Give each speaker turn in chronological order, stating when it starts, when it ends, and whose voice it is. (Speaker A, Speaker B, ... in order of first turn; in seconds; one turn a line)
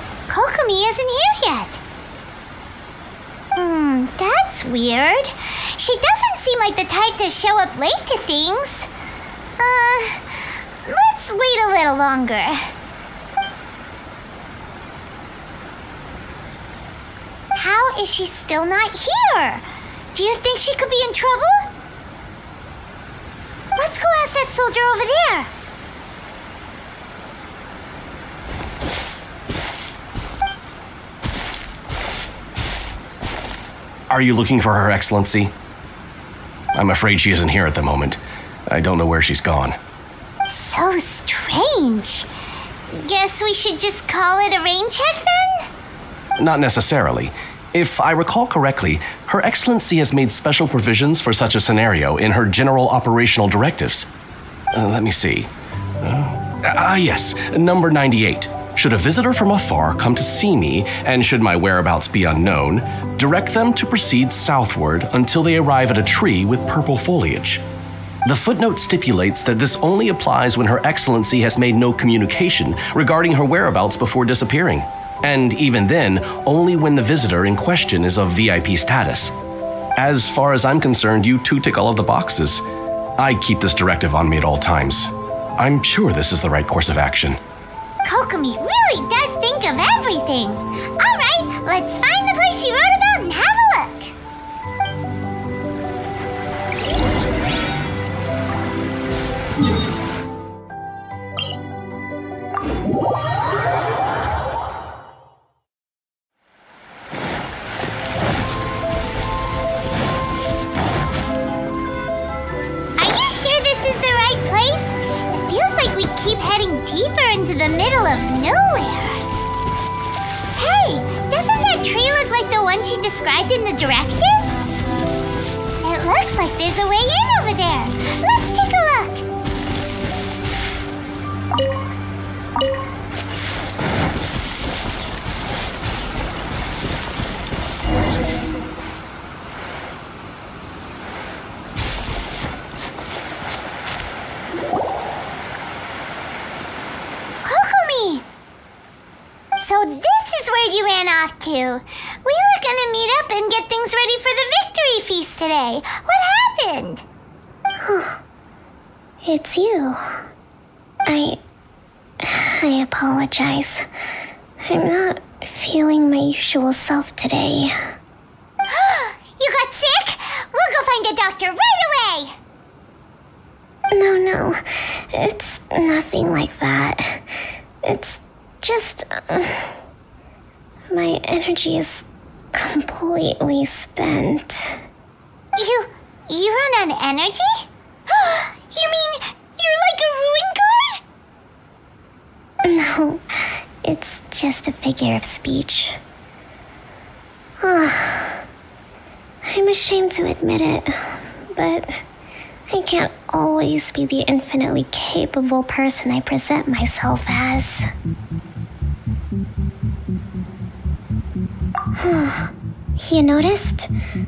Speaker A: 0.3-1.8
Speaker A: 3.5-8.9
Speaker A: 9.6-12.7
Speaker A: 17.5-21.7
Speaker A: 23.8-25.5
Speaker B: 34.1-35.5
Speaker B: 36.7-39.8
Speaker A: 40.5-42.3
Speaker A: 42.9-45.7
Speaker B: 46.4-54.1
Speaker B: 54.7-55.5
Speaker B: 56.0-67.6
Speaker B: 68.2-79.3
Speaker B: 80.0-82.6
Speaker B: 83.2-87.4
Speaker A: 88.0-94.1
Speaker A: 113.0-119.2
Speaker A: 120.5-124.5
Speaker A: 125.8-129.2
Speaker A: 147.4-148.2
Speaker A: 149.6-157.0
Speaker C: 157.8-158.2
Speaker C: 159.2-160.2
Speaker C: 161.1-161.4
Speaker C: 162.2-163.8
Speaker C: 164.6-167.8
Speaker A: 168.7-172.3
Speaker C: 173.9-177.2
Speaker C: 177.8-179.7
Speaker C: 180.9-184.8
Speaker A: 185.6-191.0
Speaker C: 192.6-193.2
Speaker C: 193.8-196.0
Speaker C: 197.6-198.4
Speaker C: 199.4-202.0
Speaker C: 202.7-207.9
Speaker C: 211.9-213.9